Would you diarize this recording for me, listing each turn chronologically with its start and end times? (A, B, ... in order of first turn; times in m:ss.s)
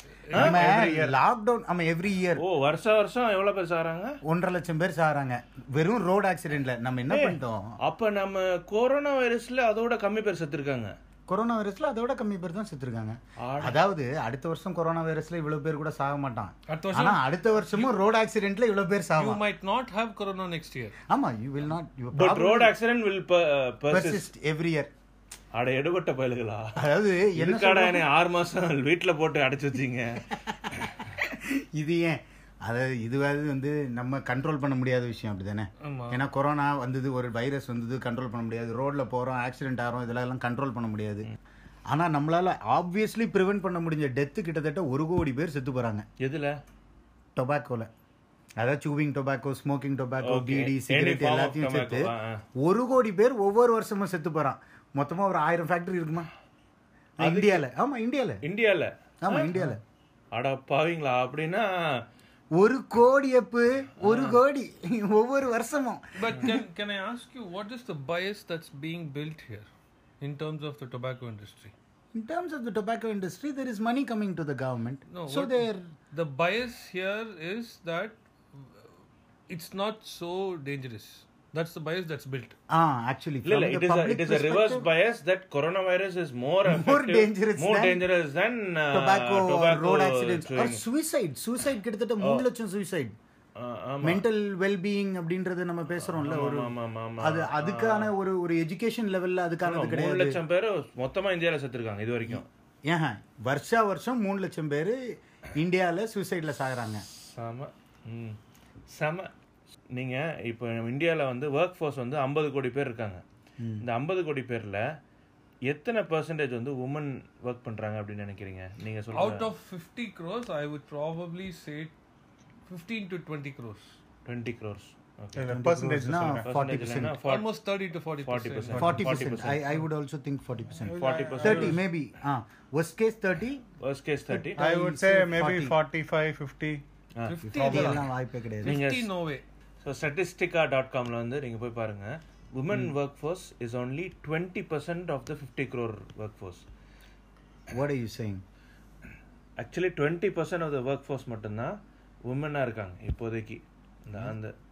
0:00.3-0:00.7 A
0:00.3-0:02.4 B
0:00.4-0:01.2 C
0:02.4-0:04.1 A
0:04.2-0:07.7 B
0:07.1-0:10.9 A
0:11.3-0:19.4 B
0:13.4-0:13.8 A
0:16.7-0:18.0 D
0:19.2-0:20.9 D
0:21.1-0:22.7 B
0:22.1-0:24.3 A
0:23.9-0:24.9 B
0:25.5-0:26.8 A
0:26.8-0:28.0 B
0:27.3-0:30.9 A
0:31.2-0:41.3 B
0:35.8-0:36.2 D
0:41.9-0:46.0 B
0:46.2-0:46.5 A
0:47.4-0:47.9 B
0:48.6-0:56.3 B
0:50.2-0:52.4 A
0:57.2-0:58.4 B
0:57.2-0:57.7 A
0:58.4-0:59.7 A
0:59.2-0:59.8 B
1:00.3-1:01.7 A
1:02.6-1:06.6 B
1:04.0-1:04.4 A
1:06.2-1:09.7 D
1:10.2-1:11.7 D
1:12.1-1:15.8 B
1:15.1-1:18.9 D
1:19.5-1:22.6 D
1:22.7-1:24.8 B
1:23.4-1:30.8 A
1:26.7-1:28.0 B
1:28.9-1:33.1 B
1:33.6-1:34.2 A
1:34.0-1:40.4 B
1:36.0-1:38.1 A
1:39.6-1:42.5 A
1:42.3-1:45.0 B
1:45.6-1:47.0 B
1:47.2-1:48.4 A
1:48.9-1:49.3 A
1:49.9-1:53.2 A
1:53.6-1:53.8 B
1:53.8-1:54.8 A
1:55.7-1:59.4 A
1:59.1-2:01.9 D
2:02.7-2:03.9 D
2:04.2-2:05.5 A
2:05.3-2:06.5 C
2:05.5-2:07.2 B
2:06.4-2:07.5 A
2:07.2-2:09.2 D
2:08.2-2:09.6 A
2:08.7-2:09.0 C
2:08.8-2:13.6 B
2:10.8-2:11.8 C
2:11.0-2:11.8 A
2:13.8-2:14.6 A
2:14.4-2:15.7 B
2:14.6-2:16.8 C
2:17.2-2:19.4 D
2:17.5-2:18.8 B
2:17.5-2:17.9 C
2:18.6-2:19.1 A
2:19.8-2:26.6 A
2:27.7-2:28.4 B
2:29.6-2:31.7 A
2:32.3-2:34.5 A